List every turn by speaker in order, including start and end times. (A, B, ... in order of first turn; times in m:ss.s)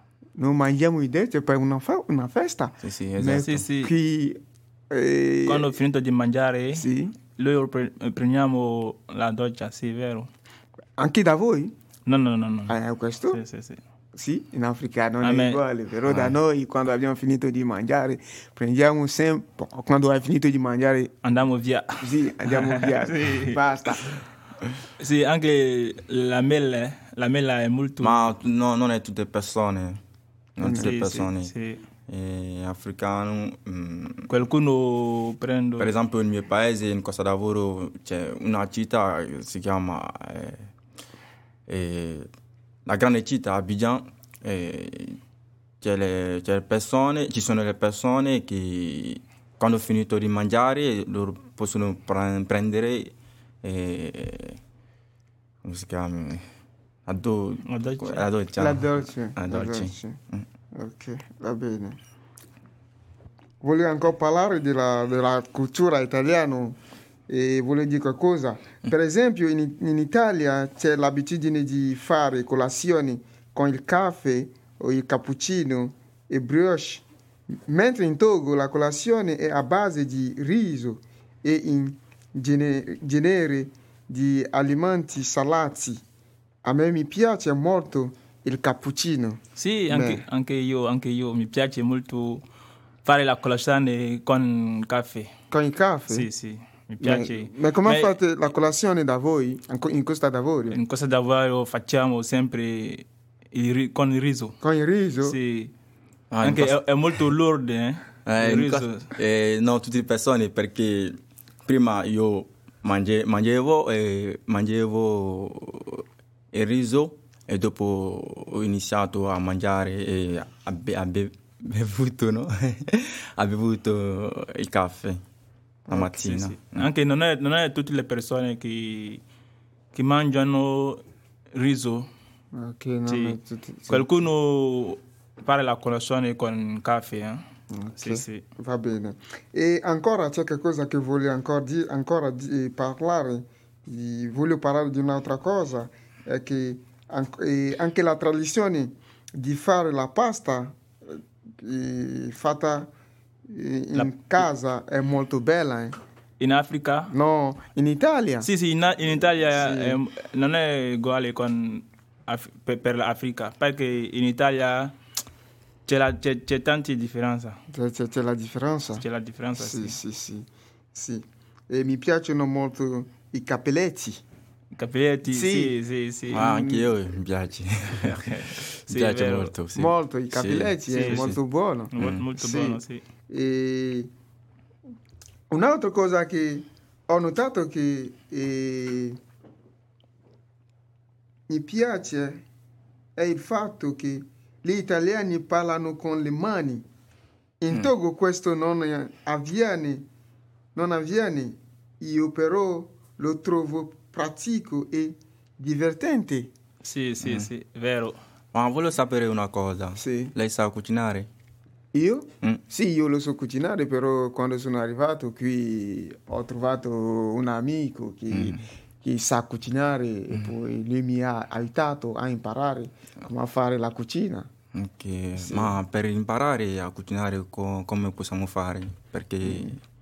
0:00.4-0:05.7 A
0:02.8-0:03.6 B
0:03.3-0:03.9 C
0:05.5-0:10.3 C
0:06.7-0:07.2 A
0:11.0-0:11.7 A
0:12.1-0:12.8 C
0:12.7-0:13.4 A
0:13.3-0:13.8 C
0:14.2-0:21.1 A
0:15.2-0:15.6 C
0:16.1-0:16.4 B
0:21.2-0:23.6 C
0:22.0-0:24.2 A
0:25.0-0:28.3 C
0:28.0-0:30.0 B
0:30.6-0:31.5 B
0:30.6-0:30.9 A
0:30.8-0:31.8 C
0:32.1-0:34.3 B
0:34.3-0:36.0 C
0:35.8-0:40.7 B
0:41.7-0:42.3 B
0:42.9-0:45.2 B
0:45.8-0:54.6 B
0:55.6-0:56.4 B
0:57.1-1:00.4 B
0:57.6-0:58.3 C
0:58.6-1:00.2 A
1:00.7-1:02.0 A
1:03.6-1:26.0 A
1:26.6-1:30.2 A
1:29.6-1:32.4 C
1:33.0-1:35.3 C
1:35.5-1:36.3 A
1:36.1-1:38.2 C
1:37.0-1:40.8 A
1:40.7-1:44.6 C
1:44.6-1:45.4 A
1:45.2-1:45.7 C
1:46.3-1:46.8 B
1:46.4-1:49.1 C
1:48.3-2:05.2 B
2:05.9-2:06.3 A
2:05.9-2:06.9 B
2:06.3-2:09.2 C
2:09.9-2:11.0 C
2:11.5-2:12.1 C
2:12.5-2:14.1 A
2:13.1-2:13.4 C
2:13.9-2:17.4 C
2:17.7-2:32.9 A
2:18.0-2:18.4 C
2:33.5-2:36.0 A
2:34.0-2:34.4 C
2:36.4-2:37.1 C
2:37.1-2:38.5 A
2:38.4-2:45.0 C
2:39.5-2:40.0 A
2:45.9-2:47.6 C
2:47.7-2:49.0 A
2:49.0-2:50.0 C
2:49.6-2:54.2 A
2:54.7-2:56.4 C
2:55.3-2:55.8 A
2:56.3-3:01.4 B
2:56.3-2:56.9 A
2:58.1-2:59.5 C
2:59.8-3:04.1 A
3:00.9-3:01.3 C
3:01.9-3:03.0 C
3:02.0-3:02.2 B
3:05.5-3:09.2 A
3:11.5-3:12.4 A
3:13.2-3:16.8 A
3:17.6-3:20.0 A
3:20.8-3:26.5 A
3:26.8-3:28.2 C
3:27.2-3:27.5 B
3:28.5-3:31.3 B
3:30.0-3:30.3 A
3:31.9-3:44.5 A
3:38.3-3:38.6 B
3:44.8-3:49.8 B
3:45.4-3:45.8 A
3:49.4-3:49.8 A